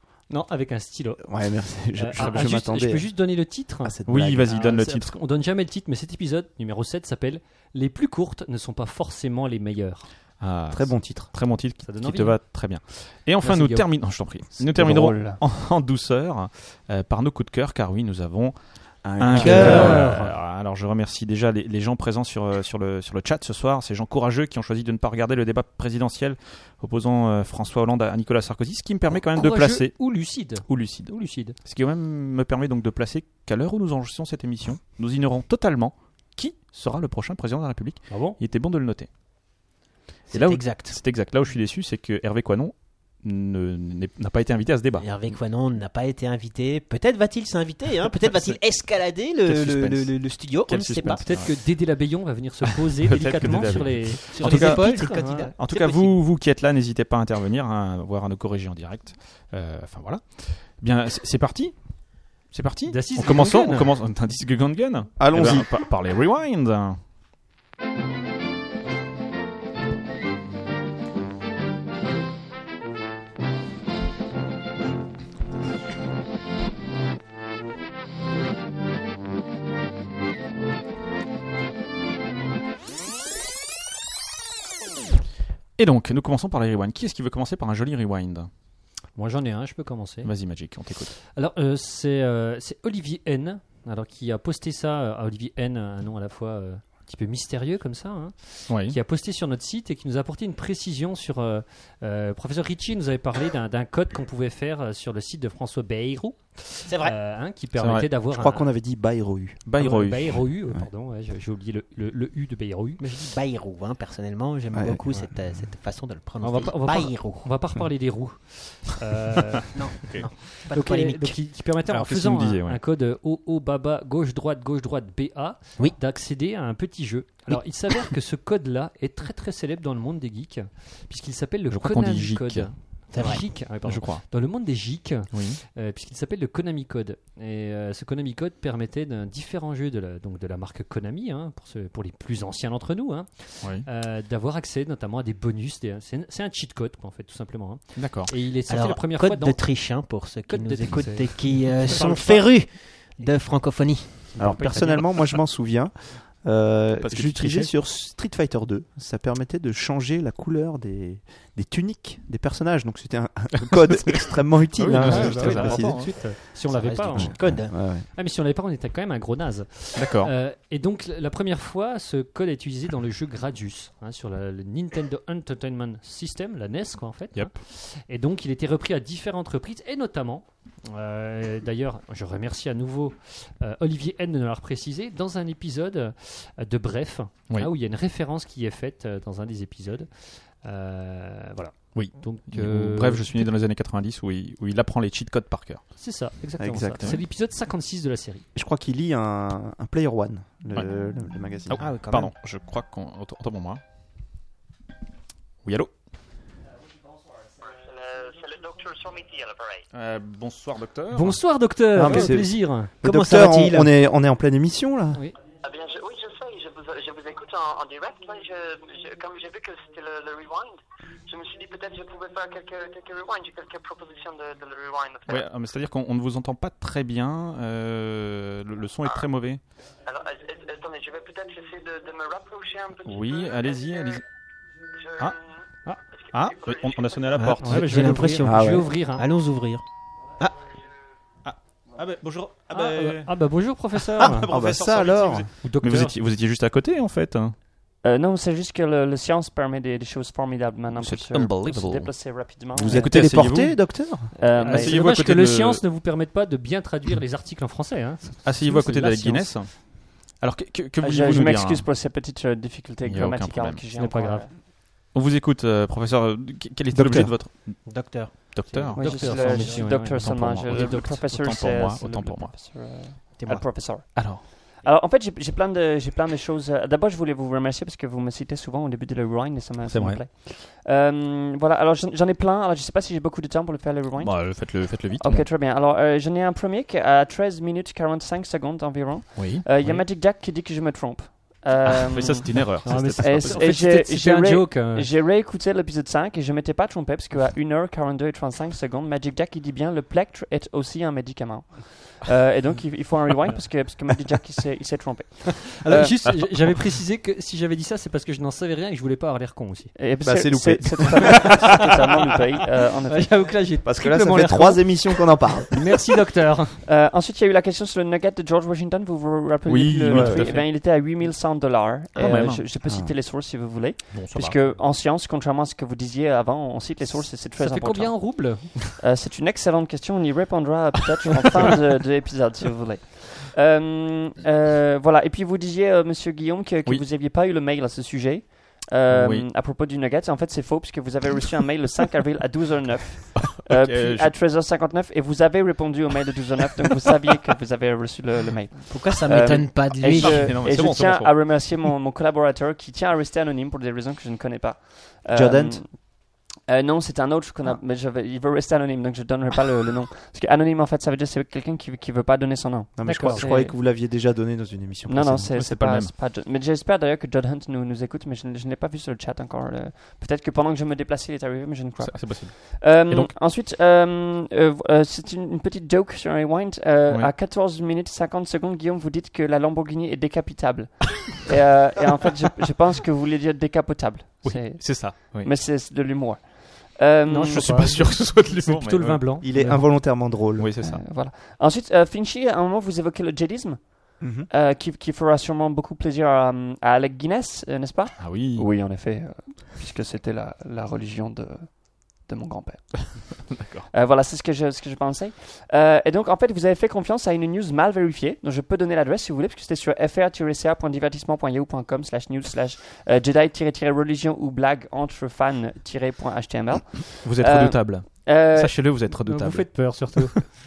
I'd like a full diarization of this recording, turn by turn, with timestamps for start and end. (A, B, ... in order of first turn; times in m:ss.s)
0:00.3-0:10.1 A
0:01.2-0:03.1 B
0:03.8-0:04.5 B
0:04.1-0:05.2 C
0:10.4-0:39.1 C
0:10.7-0:11.3 B
0:11.8-0:12.4 A
0:13.4-0:13.9 A
0:14.7-0:15.4 D
0:19.2-0:20.0 B
0:19.3-0:20.0 E
0:19.3-0:20.3 A
0:29.1-0:31.6 A
0:38.1-0:38.4 A
0:40.3-0:41.0 E
0:40.3-0:45.4 C
0:45.0-0:51.2 E
0:48.2-0:51.5 C
0:51.2-0:55.5 A
0:52.7-1:01.8 C
0:54.3-0:56.2 E
1:02.5-1:07.0 C
1:02.9-1:03.9 A
1:05.2-1:05.7 B
1:25.8-1:28.5 C
1:29.2-1:30.3 A
1:30.2-1:31.2 C
1:31.2-1:48.7 A
1:38.7-1:39.0 C
1:46.8-1:47.2 E
1:47.8-1:48.1 C
1:48.3-1:49.6 B
1:49.6-1:50.4 C
1:49.8-1:53.0 A
1:53.0-1:57.5 E
1:54.7-1:55.7 B
1:56.4-2:32.5 A
1:59.7-2:01.6 E
2:00.1-2:00.4 C
2:01.8-2:02.8 C
2:07.5-2:07.9 E
2:11.7-2:14.2 C
2:13.1-2:13.5 E
2:15.3-2:15.6 C
2:28.0-2:28.3 C
2:28.7-2:34.3 E
2:34.3-2:35.1 A
2:34.4-2:46.3 B
2:37.0-2:37.7 C
2:43.6-2:46.2 C
2:44.9-3:13.5 A
2:46.7-2:47.8 E
2:47.1-2:48.0 B
2:49.9-2:50.3 C
3:11.9-3:15.8 C
3:16.0-3:18.4 A
3:16.6-3:17.2 B
3:18.5-3:22.0 B
3:21.7-3:23.8 C
3:21.8-3:22.3 E
3:25.6-3:25.9 C
3:27.6-3:29.8 F
3:29.9-3:31.4 C
3:31.1-3:32.9 A
3:31.9-3:35.2 B
3:33.0-3:33.9 E
3:35.6-3:45.4 F
3:45.3-3:49.6 C
3:50.0-3:54.2 F
3:53.0-3:54.2 C
3:54.9-3:57.3 F
3:56.3-3:58.3 C
3:57.3-3:59.8 E
3:57.6-3:59.2 A
3:58.4-3:58.9 B
4:01.4-4:03.3 C
4:02.7-4:04.5 A
4:04.0-4:07.6 C
4:04.4-4:05.5 B
4:05.6-4:06.2 A
4:08.0-4:13.4 D
4:10.9-4:15.8 C
4:12.8-4:14.3 B
4:14.4-4:15.0 D
4:14.6-4:19.5 A
4:18.4-4:21.9 C
4:21.0-4:24.5 D
4:23.0-4:23.8 C
4:23.9-4:24.5 A
4:25.1-4:29.3 C
4:26.9-4:27.4 B
4:27.8-4:30.0 E
4:28.9-4:31.1 A
4:29.0-5:06.2 D
4:30.1-4:33.1 C
4:33.3-4:33.6 E
4:34.1-4:34.4 C
4:39.8-4:40.2 C
4:44.2-4:45.4 C
4:49.4-4:49.6 C
4:51.8-4:53.7 C
4:52.8-4:55.1 A
5:05.8-5:09.9 A
5:10.0-5:13.4 D
5:10.2-5:11.6 B
5:13.1-5:15.2 A
5:13.8-5:15.7 B
5:15.7-5:16.8 A
5:16.8-6:03.8 D
5:19.6-5:20.7 C
5:20.1-5:20.4 B
5:22.2-5:22.6 C
5:22.8-5:23.1 B
5:24.1-5:24.8 C
5:27.6-5:28.8 A
5:39.1-5:39.5 C
5:43.4-5:44.3 C
5:48.9-5:50.5 E
5:49.4-5:51.8 C
5:55.3-5:55.8 B
6:03.0-6:05.5 B
6:03.0-6:03.5 A
6:05.1-6:27.8 D
6:05.5-6:06.1 C
6:12.0-6:13.3 C
6:24.4-6:25.5 C
6:27.3-6:29.8 A
6:27.5-6:29.9 C
6:29.4-6:30.7 B
6:30.6-6:31.0 C
6:30.8-6:58.9 D
6:34.2-6:34.5 B
6:38.2-6:38.6 C
6:43.5-6:43.9 C
6:57.2-7:00.4 C
6:59.2-7:00.4 A